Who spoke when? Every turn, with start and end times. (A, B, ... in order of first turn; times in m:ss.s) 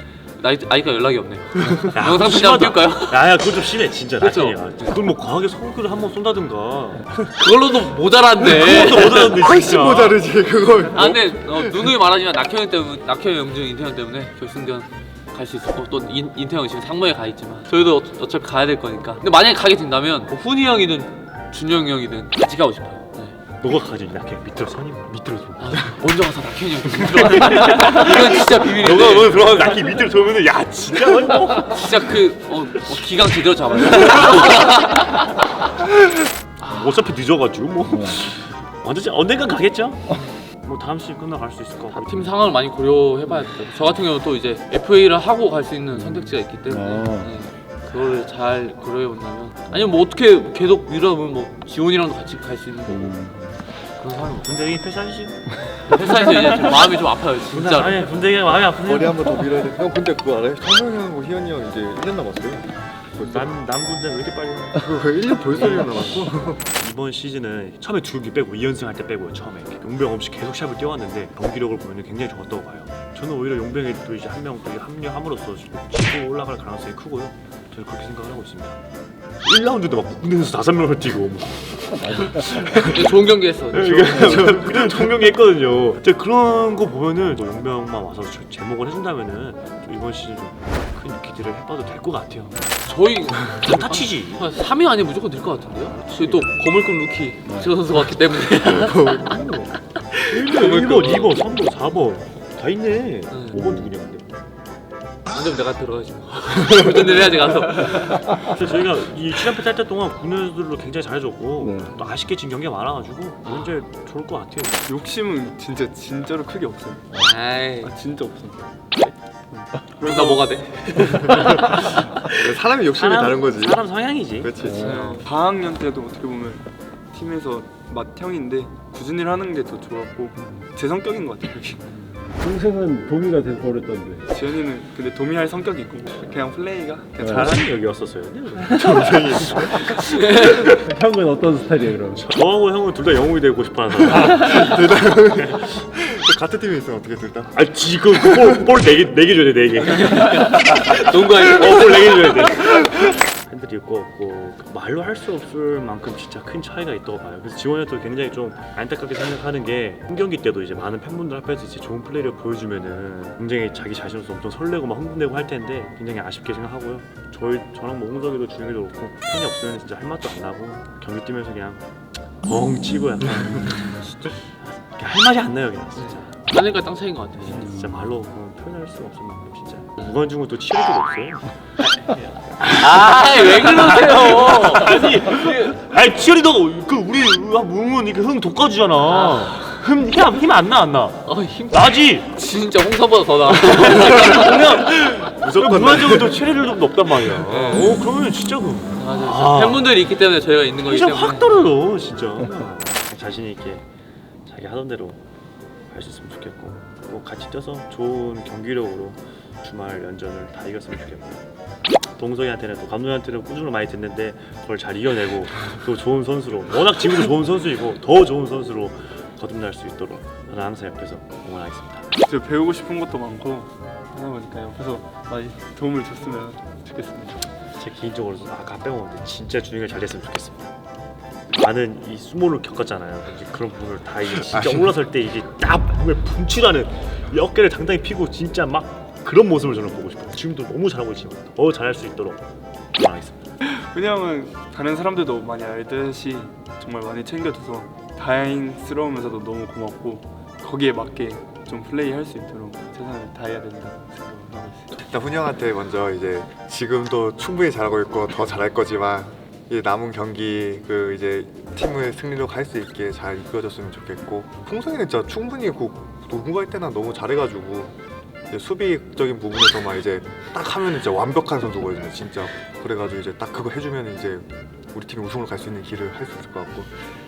0:00.4-0:03.5 A
0:01.9-0:07.2 B
0:04.2-0:05.0 A
0:07.4-0:09.4 A
0:08.4-0:10.2 B
0:09.3-0:11.9 C
0:10.9-0:23.4 A
0:23.6-0:26.0 B
0:25.6-0:29.4 A
0:26.9-0:32.1 B
0:31.5-0:35.7 A
0:33.8-0:34.7 B
0:36.6-0:37.1 A
0:36.7-0:42.3 B
0:37.9-0:38.2 D
0:41.9-0:53.3 A
0:46.0-0:47.3 D
0:52.9-0:53.5 D
0:54.0-0:54.7 A
0:54.4-0:59.7 B
0:55.8-0:58.1 A
0:58.8-1:03.5 C
1:03.2-1:05.0 B
1:04.8-1:06.6 C
1:05.5-1:18.8 B
1:19.4-1:32.8 B
1:22.7-1:24.6 A
1:32.8-1:39.4 A
1:33.4-1:34.5 B
1:35.9-1:36.5 B
1:39.0-1:39.5 C
1:39.3-1:39.7 B
1:40.2-1:41.4 A
1:40.3-1:44.2 B
1:43.3-1:43.6 A
1:43.5-1:43.9 D
1:45.3-1:48.5 A
1:48.0-1:54.9 B
1:51.6-1:51.9 D
1:53.5-1:53.8 A
1:54.9-1:57.2 E
1:57.2-1:57.9 A
1:57.8-1:58.8 E
1:59.5-2:02.0 E
2:00.0-2:01.9 A
2:01.5-2:01.9 B
2:02.2-2:04.9 C
2:02.9-2:04.7 B
2:04.6-2:05.1 D
2:04.7-2:12.2 E
2:12.3-2:14.2 D
2:14.3-2:17.7 E
2:17.2-2:19.3 B
2:18.6-2:20.0 C
2:19.8-2:20.8 A
2:20.7-2:22.2 D
2:22.0-2:24.7 B
2:24.2-2:27.6 C
2:27.5-2:51.8 B
2:28.1-2:28.6 C
2:30.0-2:32.5 A
2:52.4-2:56.5 B
2:56.0-2:57.8 A
2:57.4-3:12.3 B
3:02.7-3:05.8 A
3:09.0-3:09.8 A
3:11.2-3:14.8 A
3:13.5-3:20.0 B
3:14.8-3:16.4 C
3:17.4-3:18.0 A
3:19.0-3:21.7 A
3:20.8-3:23.8 B
3:24.5-3:25.2 B
3:25.9-3:31.4 B
3:32.2-3:42.1 B
3:42.2-3:47.5 E
3:47.8-3:50.7 B
3:51.5-4:02.4 B
3:54.5-3:54.9 C
4:03.0-4:03.4 B
4:03.6-4:14.9 E
4:15.0-4:28.0 C
4:28.5-4:36.9 C